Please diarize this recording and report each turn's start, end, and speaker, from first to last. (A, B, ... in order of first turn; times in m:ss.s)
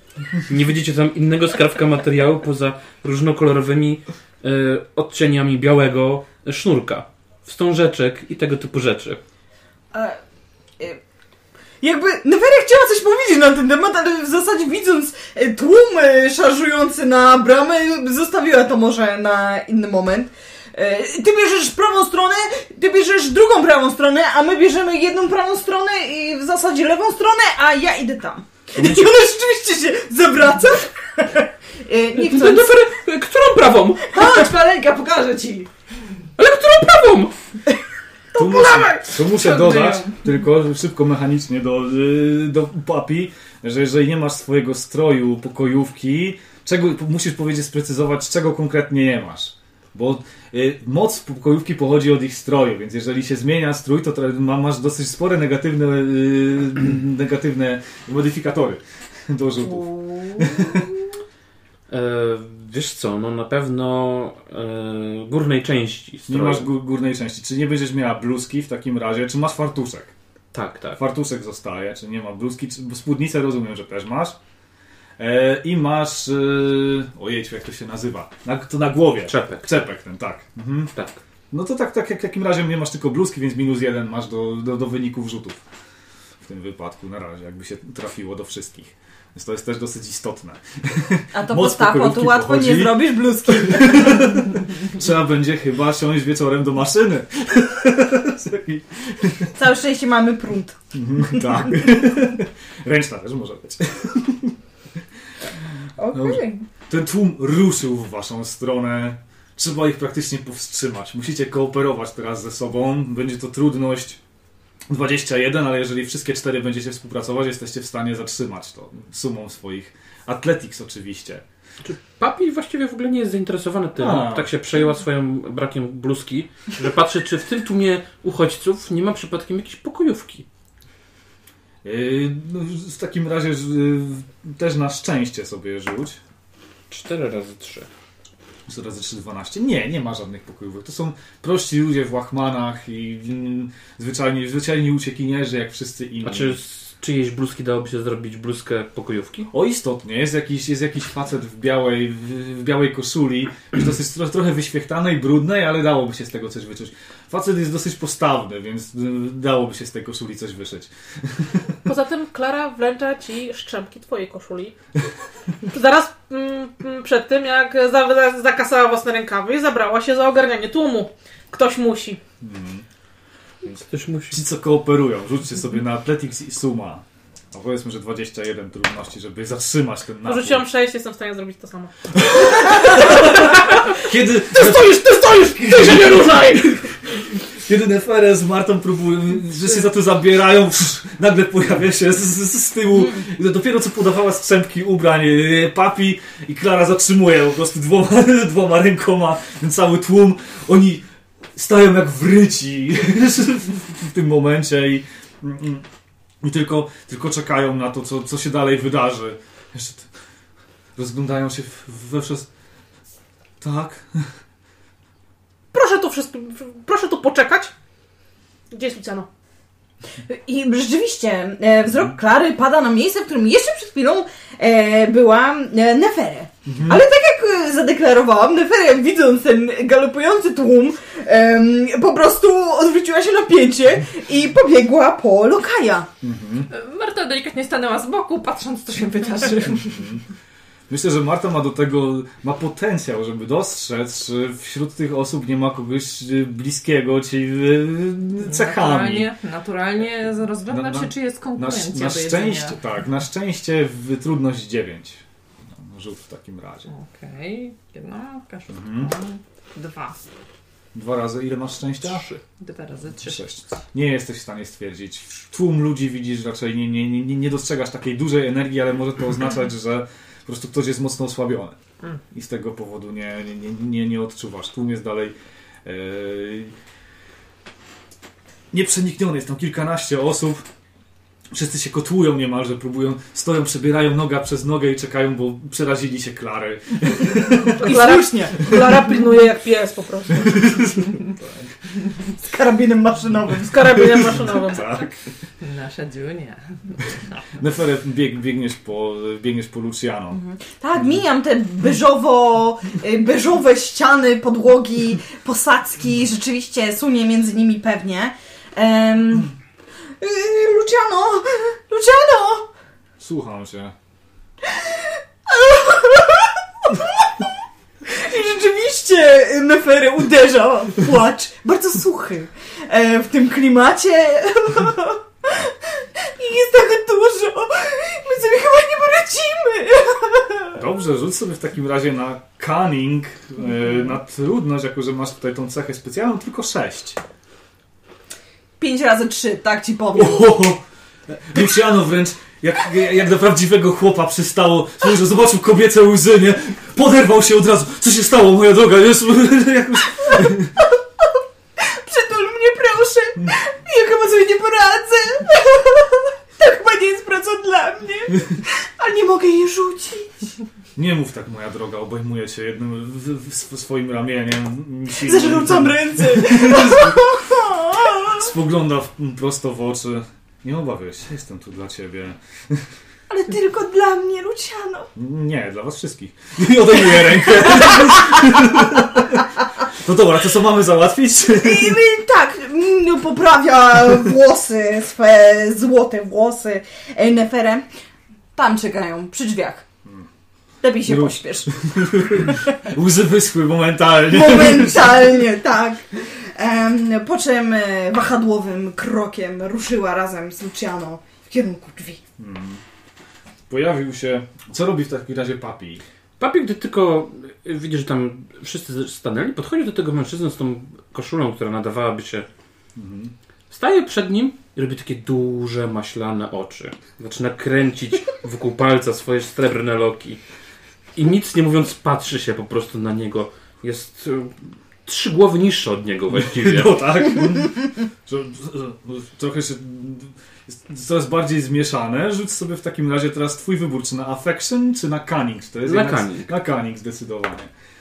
0:00.5-0:09.2 A
0:09.9-0:10.2 B
0:11.8-0:32.8 B
0:32.2-0:34.1 A
0:34.1-0:35.7 C
0:34.1-0:34.5 B
0:36.4-0:37.3 A
0:38.4-0:39.1 D
0:38.4-1:00.9 E
0:39.4-0:40.1 B
0:59.6-1:00.8 B
1:01.9-1:06.7 A
1:06.3-1:10.1 E
1:10.5-1:11.0 A
1:11.0-1:14.4 E
1:15.2-1:20.9 E
1:19.3-1:19.7 A
1:20.9-1:21.2 A
1:21.5-1:25.6 E
1:26.4-1:39.6 E
1:31.3-1:34.3 B
1:39.6-1:40.8 B
1:40.9-1:44.6 E
1:46.0-1:46.6 B
1:46.1-1:54.2 E
1:54.9-2:01.4 E
2:01.8-2:10.4 A
2:04.0-2:04.5 E
2:11.8-2:16.2 E
2:16.9-2:17.9 A
2:18.7-2:26.6 E
2:26.2-2:29.5 A
2:29.5-2:41.7 E
2:41.8-2:44.8 D
2:45.7-2:52.2 D
2:52.4-2:52.9 E
2:53.6-3:00.6 E
2:53.9-2:54.4 A
3:00.3-3:06.9 D
3:02.1-3:21.0 E
3:21.6-3:25.9 E
3:26.4-3:30.1 E
3:31.0-3:32.5 E
3:33.6-3:34.3 E
3:35.7-3:37.7 D
3:38.7-3:39.3 D
3:40.2-3:56.1 B
3:46.6-3:47.0 E
3:56.2-3:56.7 E
3:56.7-4:00.1 C
3:59.9-4:00.2 E
4:00.9-4:09.3 E
4:08.4-4:12.8 C
4:10.7-4:16.9 E
4:16.9-4:20.2 C
4:18.7-4:19.1 E
4:20.9-4:22.2 E
4:22.1-4:22.4 A
4:22.6-4:23.5 C
4:23.2-4:31.8 E
4:32.3-4:35.3 E
4:35.8-4:36.7 E
4:38.7-4:40.7 E
4:41.5-4:47.9 E
4:47.6-4:49.1 B
4:47.8-4:50.9 D
4:50.3-4:51.6 E
4:52.4-4:53.7 B
4:53.6-4:55.1 D
4:53.6-4:55.2 E
4:55.6-4:57.4 C
4:57.6-5:00.4 E
5:00.3-5:09.5 B
5:10.2-5:12.7 B
5:13.2-5:13.9 E
5:14.6-5:30.8 B
5:30.8-5:37.2 E
5:38.8-5:40.6 B
5:40.1-5:50.7 E
5:50.3-6:00.5 B
6:01.0-6:07.2 E
6:05.2-6:08.5 B
6:08.2-6:12.9 E
6:13.3-6:15.1 B
6:15.2-6:22.0 E
6:17.2-6:18.6 B
6:21.5-6:27.9 B
6:28.6-6:29.8 B
6:30.8-6:32.7 B
6:31.0-6:35.2 E
6:34.3-6:42.2 B
6:42.4-6:42.8 E
6:43.7-6:46.0 E
6:46.4-6:52.5 A
6:53.0-6:53.3 E
6:53.7-7:00.4 A
7:01.2-7:07.0 A
7:06.3-7:17.7 E
7:15.8-7:16.5 A